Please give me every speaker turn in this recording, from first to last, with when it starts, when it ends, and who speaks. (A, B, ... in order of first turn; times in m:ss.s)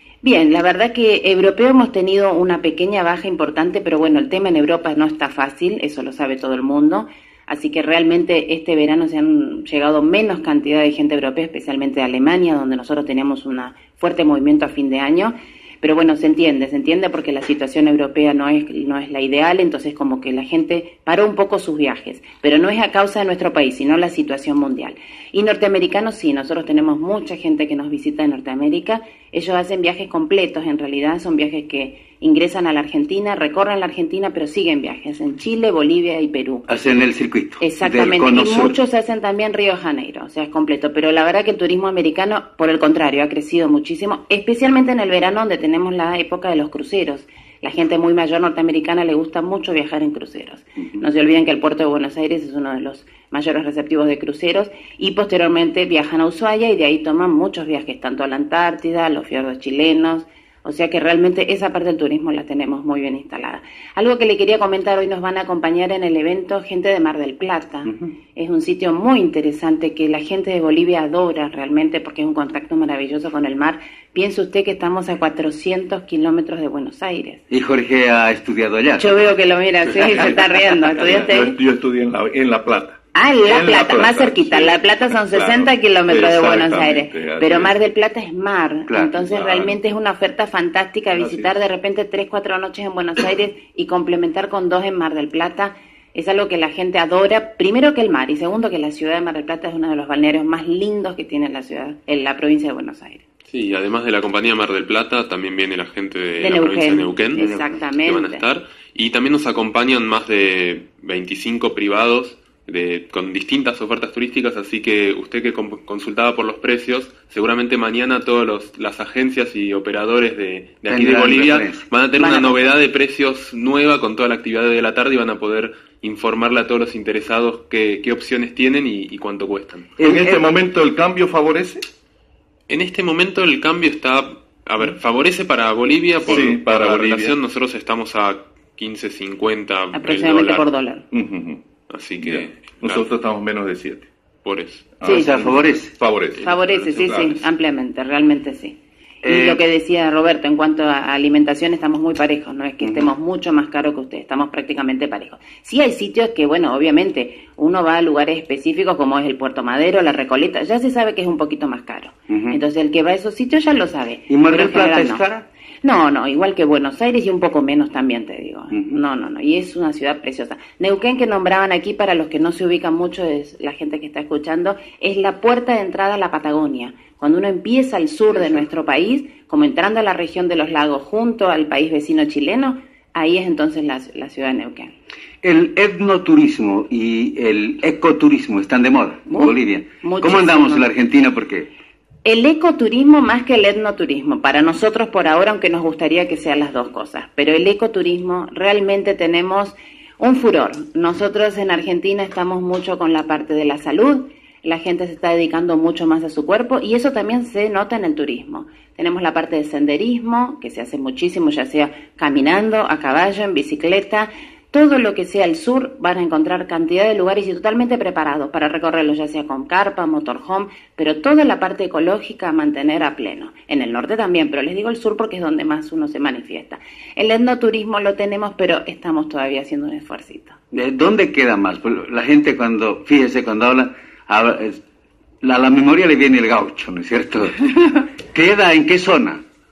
0:00.2-0:36.6 A
0:36.7-0:38.8 B
0:37.6-1:17.4 A
1:17.5-1:19.3 B
1:19.0-1:21.6 A
1:21.0-1:27.8 C
1:23.1-1:43.2 A
1:28.9-1:29.1 B
1:29.2-1:29.8 C
1:31.1-1:31.5 C
1:43.5-1:47.4 D
1:46.4-1:48.4 A
1:47.3-1:47.7 B
1:48.0-2:09.9 D
2:00.9-2:01.9 B
2:02.1-2:02.8 A
2:10.0-2:10.5 B
2:10.0-2:11.8 C
2:12.7-2:20.6 D
2:16.2-2:17.4 C
2:19.9-2:21.0 A
2:21.1-2:21.6 C
2:21.9-2:23.1 D
2:22.2-2:24.1 C
2:24.4-2:24.8 D
2:25.0-2:27.4 C
2:25.0-2:25.3 A
2:25.0-2:25.9 B
2:26.4-2:27.4 D
2:26.4-2:45.2 A
2:29.2-2:29.6 B
2:32.8-2:33.1 B
2:42.3-2:42.6 B
2:44.3-2:45.4 B
2:45.8-3:04.9 A
2:48.7-2:49.0 B
2:58.3-2:58.6 B
3:05.4-3:11.7 B
3:09.3-3:10.9 A
3:12.2-3:50.6 A
3:50.7-3:54.8 B
3:55.4-3:57.7 B
3:58.2-3:59.4 B